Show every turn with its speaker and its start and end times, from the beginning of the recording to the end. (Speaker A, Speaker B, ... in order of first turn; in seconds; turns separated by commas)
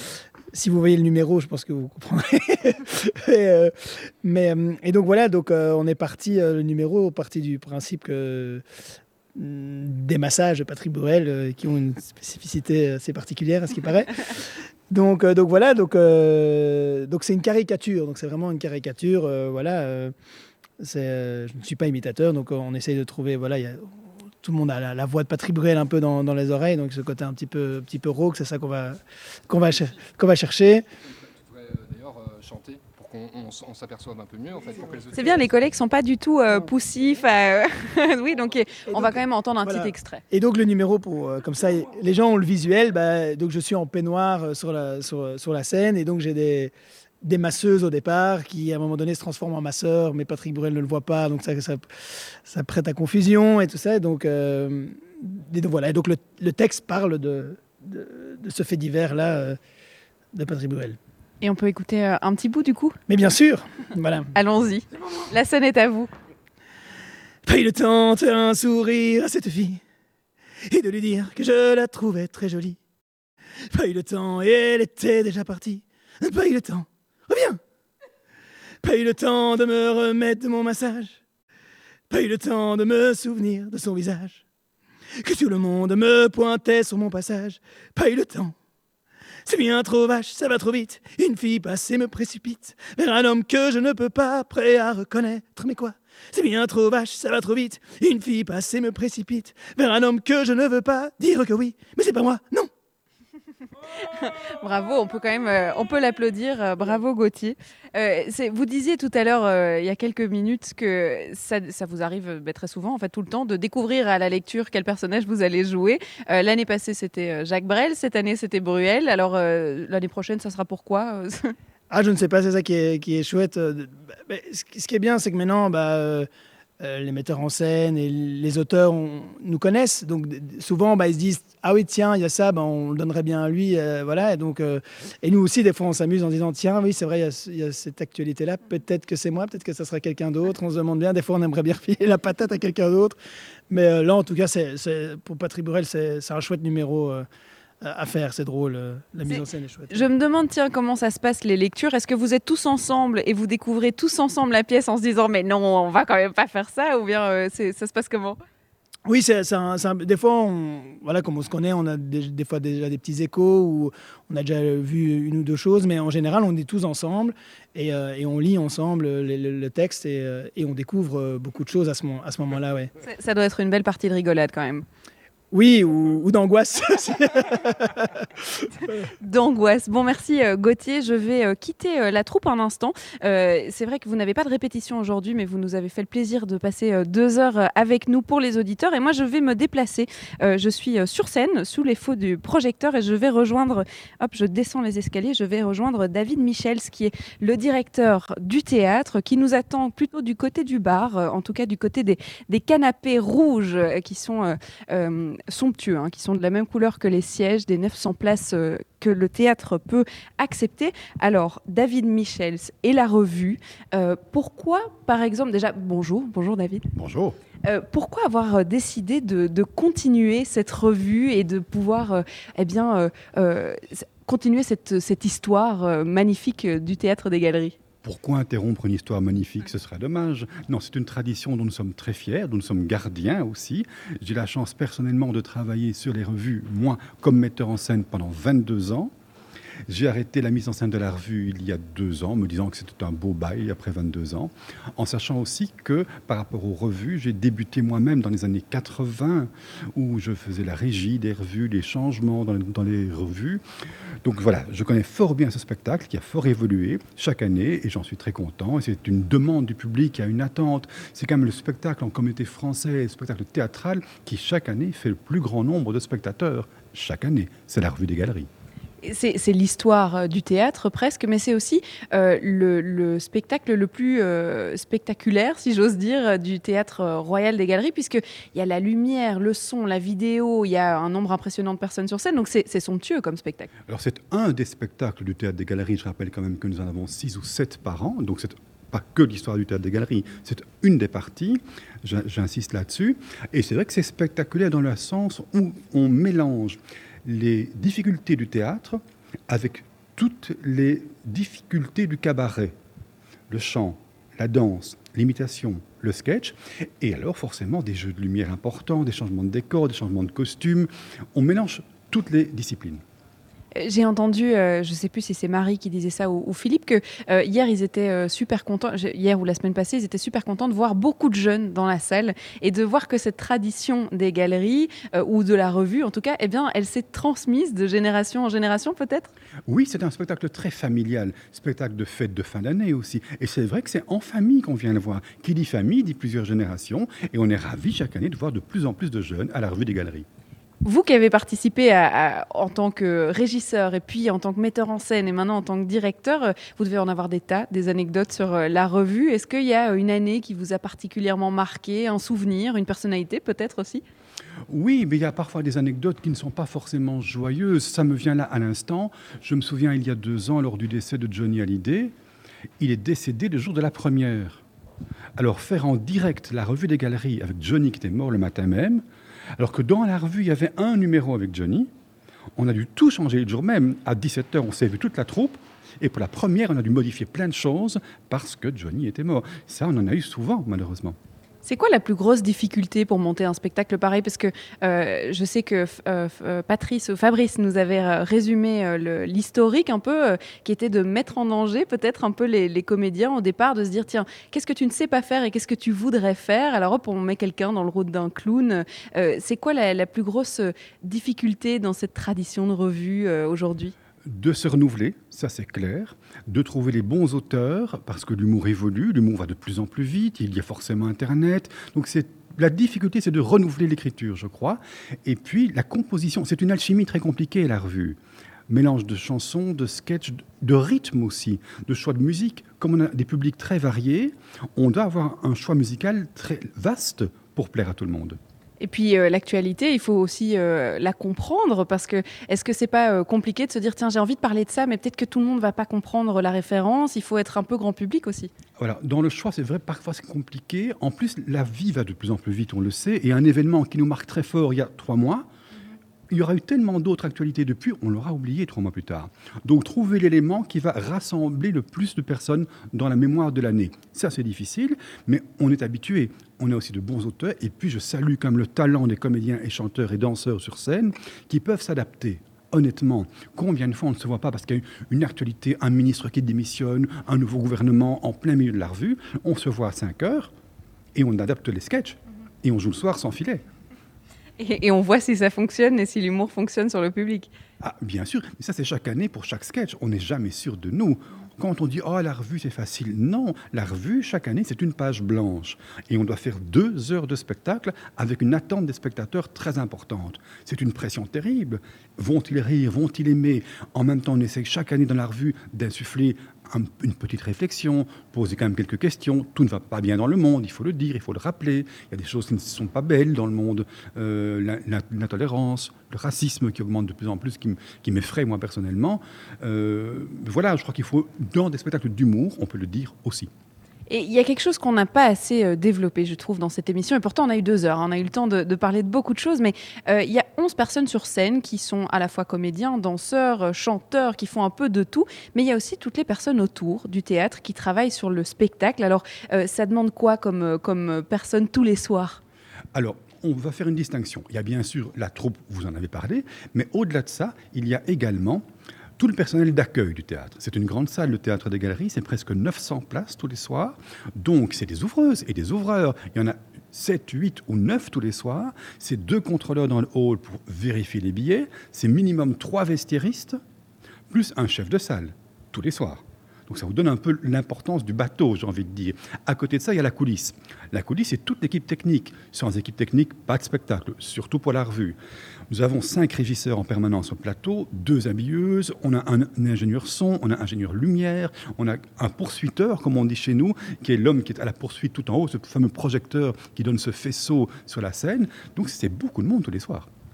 Speaker A: 0.5-8.6, Speaker A: 9.3-20.1, Speaker A: 20.8-23.9, Speaker A: 24.4-30.8, Speaker B: 31.4-35.5, Speaker C: 35.1-40.2, Speaker A: 38.9-59.6, Speaker A: 60.3-61.0, Speaker C: 61.4-63.0, Speaker A: 63.1-64.3, Speaker C: 64.3-66.1, Speaker A: 67.5-69.8, Speaker A: 70.7-72.8, Speaker A: 73.7-77.6, Speaker A: 78.8-81.2, Speaker A: 82.1-84.4, Speaker A: 85.2-88.5, Speaker A: 89.5-102.7, Speaker C: 104.0-121.5, Speaker A: 121.9-126.3, Speaker A: 126.8-143.2, Speaker A: 143.7-147.2, Speaker A: 147.8-150.1, Speaker C: 149.3-158.4, Speaker A: 159.1-172.9, Speaker C: 173.0-174.8, Speaker A: 175.5-179.0, Speaker C: 179.2-216.8, Speaker D: 216.9-217.4, Speaker C: 217.7-227.8, Speaker D: 228.0-239.1, Speaker D: 239.9-253.6, Speaker D: 254.2-268.5, Speaker C: 269.0-283.7, Speaker D: 283.9-302.8, Speaker D: 303.5-313.0, Speaker C: 313.8-329.3, Speaker D: 329.7-340.3, Speaker C: 340.8-354.0, Speaker D: 354.7-362.1, Speaker D: 362.8-364.6, Speaker D: 365.4-369.0, Speaker D: 369.6-371.9, Speaker D: 372.6-381.2, Speaker C: 381.6-403.9, Speaker D: 404.3-428.4, Speaker C: 428.8-438.5, Speaker D: 438.8-445.5, Speaker D: 446.3-470.5, Speaker D: 471.1-473.6, Speaker C: 474.6-477.5, Speaker D: 477.8-513.5, Speaker C: 514.1-532.4, Speaker D: 532.9-538.6, Speaker D: 539.2-553.6, Speaker D: 554.3-565.2, Speaker D: 565.7-580.1